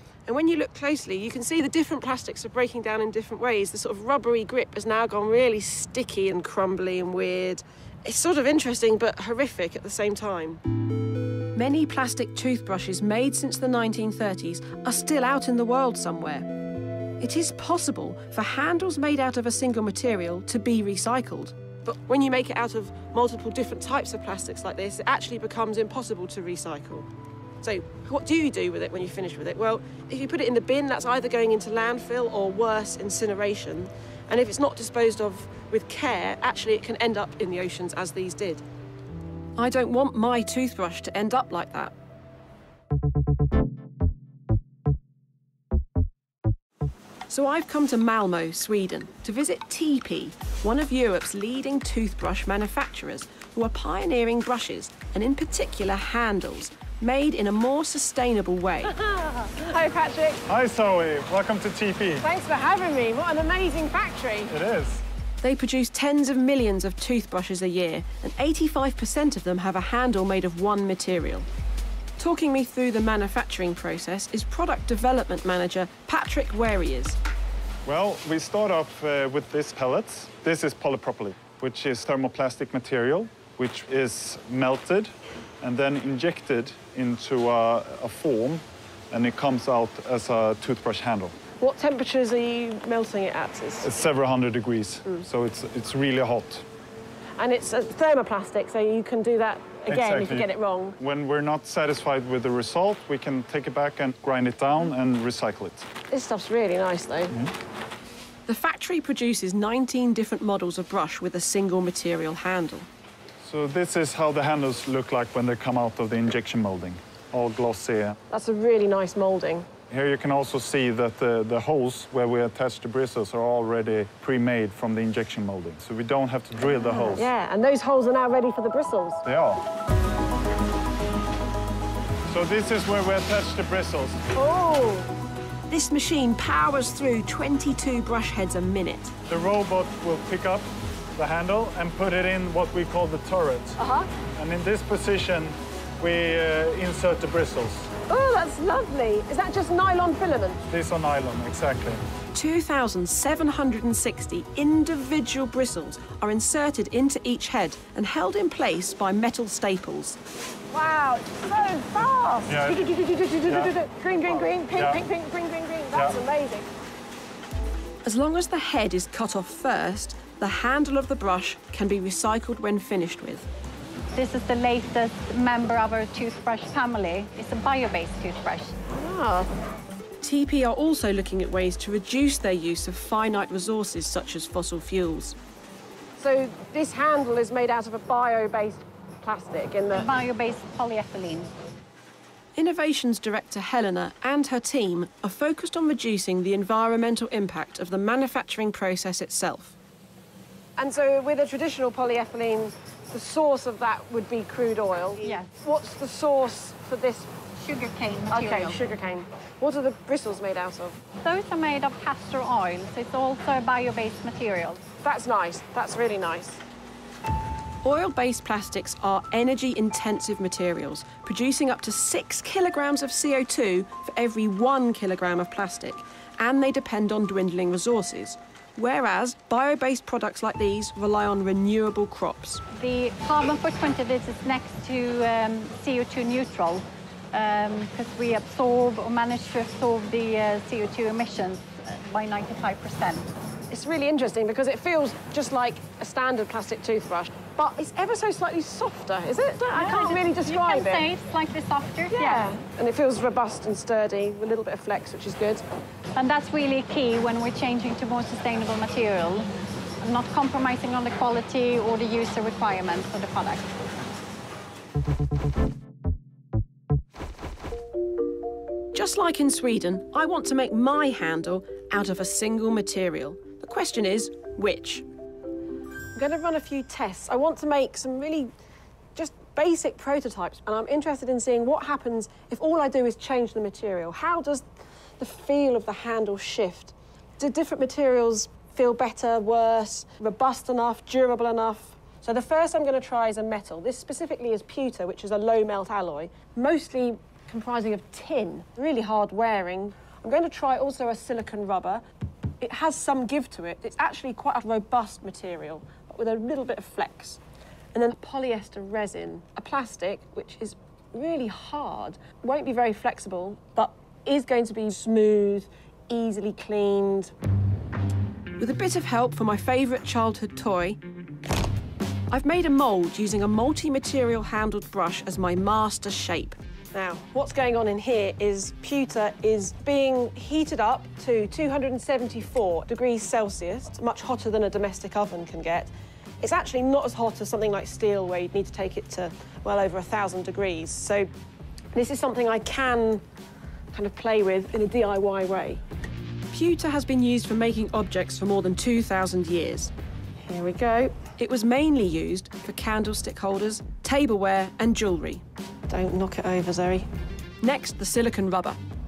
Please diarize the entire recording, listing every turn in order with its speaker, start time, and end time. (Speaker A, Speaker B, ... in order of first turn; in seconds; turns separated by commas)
Speaker A: 0.3-10.6, Speaker A: 11.5-16.5, Speaker A: 17.2-27.1, Speaker A: 27.6-38.6, Speaker A: 39.6-41.9, Speaker A: 47.3-60.4, Speaker B: 60.5-62.2, Speaker A: 62.2-64.5, Speaker B: 64.5-65.0, Speaker A: 65.4-71.5, Speaker A: 72.2-77.2, Speaker B: 77.8-91.4, Speaker A: 91.6-93.9, Speaker B: 93.8-96.6, Speaker A: 97.4-101.0, Speaker B: 99.9-105.9, Speaker A: 106.1-107.3, Speaker A: 108.5-112.9, Speaker B: 113.4-118.2, Speaker A: 118.3-119.7, Speaker B: 119.9-127.3, Speaker A: 126.8-129.2, Speaker B: 129.2-129.6, Speaker B: 132.3-134.2, Speaker A: 134.3-135.1, Speaker A: 135.7-139.1, Speaker B: 139.3-143.8, Speaker A: 143.8-144.1, Speaker B: 144.4-147.9, Speaker A: 148.1-150.6, Speaker B: 150.7-152.0, Speaker A: 152.3-160.2, Speaker A: 160.7-166.7, Speaker B: 162.5-163.0, Speaker B: 163.5-163.7, Speaker B: 164.3-165.0, Speaker A: 168.0-173.5, Speaker C: 174.1-178.8, Speaker A: 178.9-179.5, Speaker A: 180.2-185.4, Speaker A: 186.2-190.1, Speaker C: 189.9-191.5, Speaker A: 192.6-199.8, Speaker A: 200.8-207.3, Speaker C: 205.2-205.5, Speaker C: 207.6-208.9, Speaker A: 208.3-211.0, Speaker C: 211.2-214.8, Speaker A: 215.0-216.6, Speaker A: 217.8-232.6, Speaker C: 232.7-243.3, Speaker A: 243.7-251.1, Speaker C: 249.8-252.5, Speaker A: 252.1-255.6, Speaker C: 256.1-259.5, Speaker C: 260.0-263.8, Speaker A: 268.9-275.0, Speaker A: 276.1-278.5, Speaker A: 279.1-284.6, Speaker A: 285.2-302.0, Speaker A: 302.6-307.4, Speaker A: 307.9-317.3, Speaker A: 318.6-321.0, Speaker A: 322.3-335.9, Speaker A: 336.4-341.3, Speaker A: 341.9-343.2, Speaker A: 343.9-345.8, Speaker A: 346.5-349.9, Speaker A: 350.4-357.1, Speaker A: 357.6-358.8